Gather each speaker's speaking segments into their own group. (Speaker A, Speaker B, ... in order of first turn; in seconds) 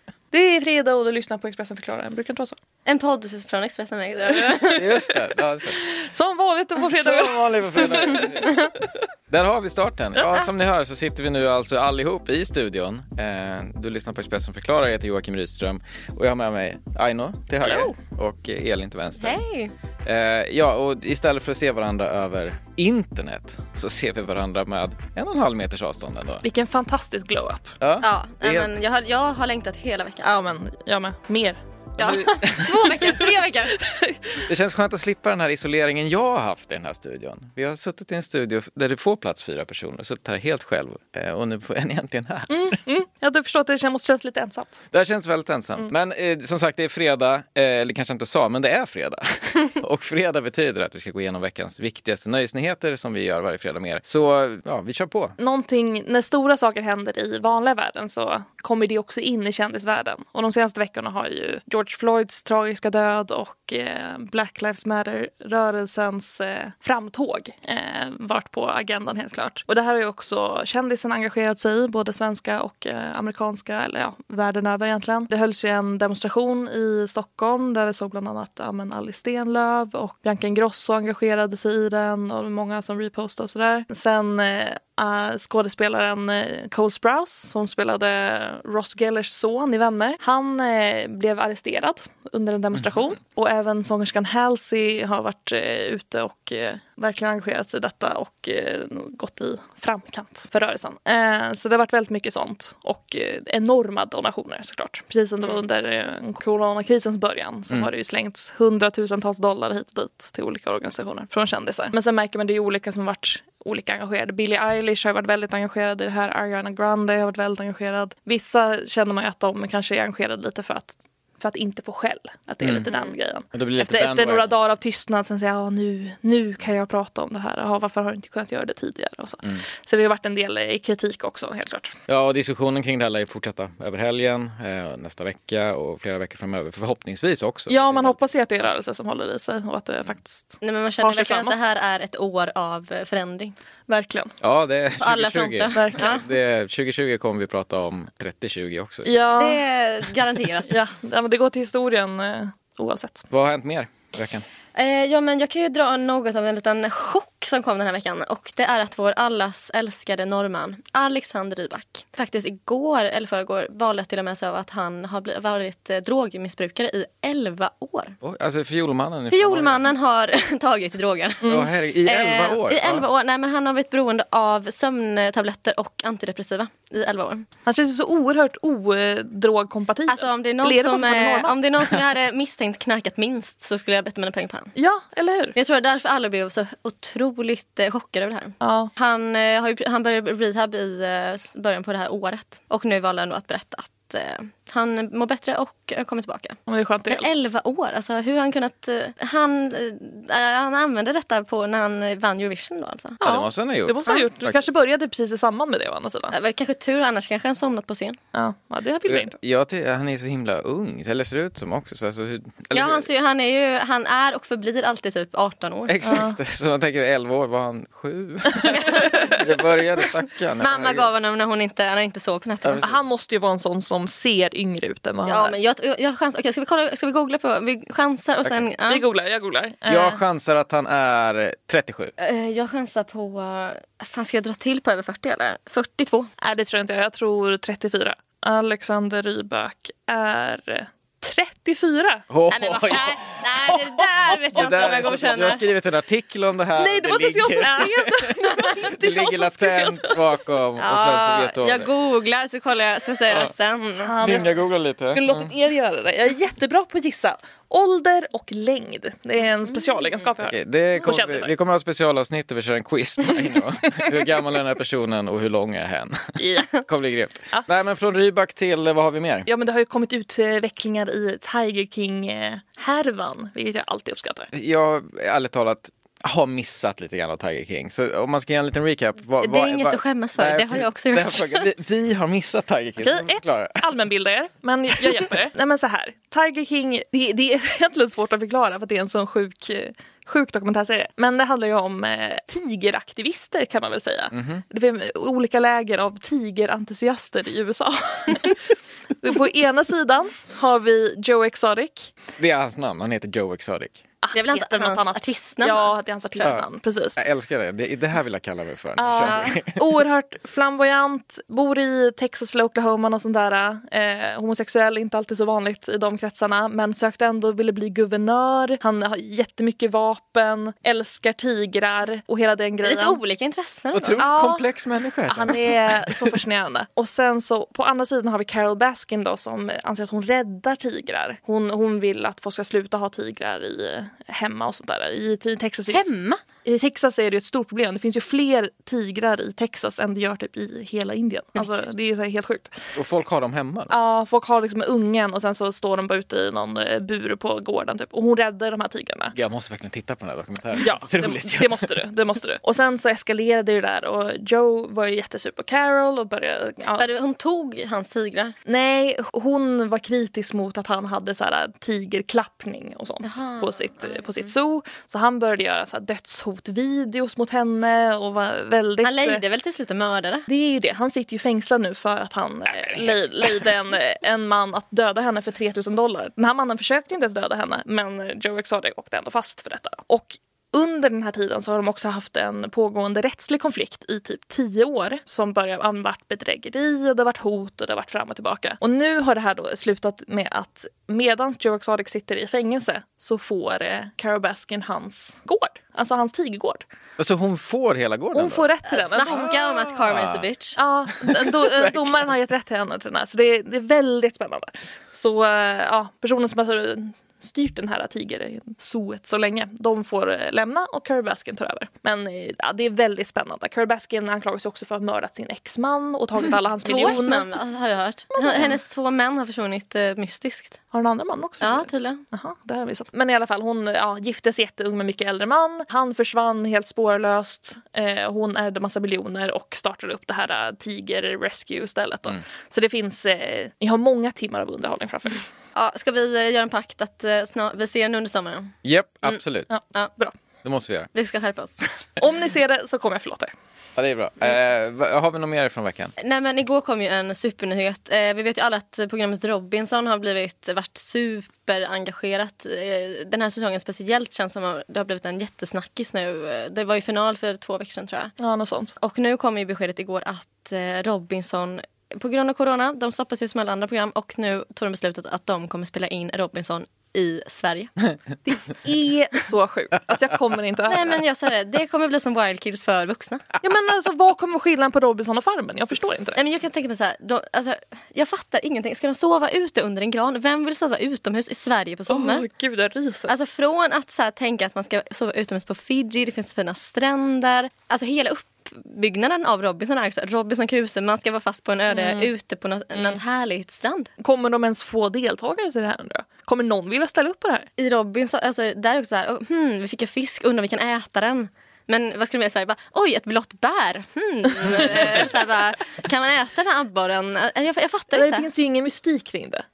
Speaker A: 0.3-2.5, 6.1-8.7, 26.4-27.8, 30.2-31.6, 32.8-34.4, 42.5-44.8, 55.4-131.9, 137.7-141.6, 143.9-144.3, 145.7-146.2, 149.1-149.6, 150.7-153.2, 171.4-171.7, 177.7-181.5, 184.8-185.6, 188.6-188.9, 196.7-197.3, 203.2-206.3, 208.3-209.4, 216.0-216.4, 222.8-225.6, 228.9-230.2, 236.4-242.2, 246.8-250.2, 254.0-261.5, 266.4-266.7, 269.5-274.5, 283.0-302.1, 304.2-307.2, 309.0-323.2, 324.1-324.7, 325.3-336.1, 336.6-342.8, 343.9-349.4, 350.8-357.1, 358.6-369.4, 370.5-396.8, 398.3-399.5, 400.8-417.6, 418.4-418.8, 420.9-435.4, 439.7-440.3, 442.2-443.5, 458.4-458.9, 468.5-471.2, 473.6-476.4, 482.1-483.3, 491.9-492.3, 494.2-497.7, 508.1-509.6
Speaker B: 2.9-4.9, 19.2-19.7, 28.0-30.3, 32.0-33.8, 140.6-143.5, 145.0-146.2, 149.4-150.8, 154.8-168.2, 169.3-177.5, 180.1-184.7, 185.6-203.2, 206.3-208.2, 212.7-216.2, 218.6-219.4, 220.6-222.9, 225.3-229.0, 232.2-236.3, 242.5-245.7, 250.8-254.2, 279.4-281.7, 304.3-305.9, 309.2-309.6, 322.8-324.3, 335.9-336.4, 357.0-358.5, 363.2-364.5, 369.0-370.5, 398.9-400.8, 416.8-420.8, 421.6-422.2, 435.8-439.4, 441.1-442.0, 446.2-458.3, 459.0-468.0, 470.9-473.4, 476.4-482.4, 483.3-494.1, 497.8-508.5
Speaker C: 4.8-5.8, 6.9-8.6, 9.3-19.4, 20.1-26.4, 27.8-28.7, 32.0-32.7, 34.5-42.8, 44.9-55.4, 122.6-122.9, 123.5-124.5, 132.1-138.2, 144.4-149.1, 153.3-154.4, 168.2-169.9, 171.5-173.1, 203.2-204.7, 209.1-213.1, 215.9-221.1, 222.6-223.1, 229.9-232.1, 242.3-243.8, 244.4-251.9, 254.2-255.5, 260.4-269.5, 274.5-283.7, 294.3-294.6, 302.4-304.0, 307.2-309.8, 323.9-326.3, 342.9-343.9, 349.3-351.9, 397.2-398.7, 399.3-400.4, 401.2-402.2, 438.8-439.7, 440.6-441.1, 444.0-446.1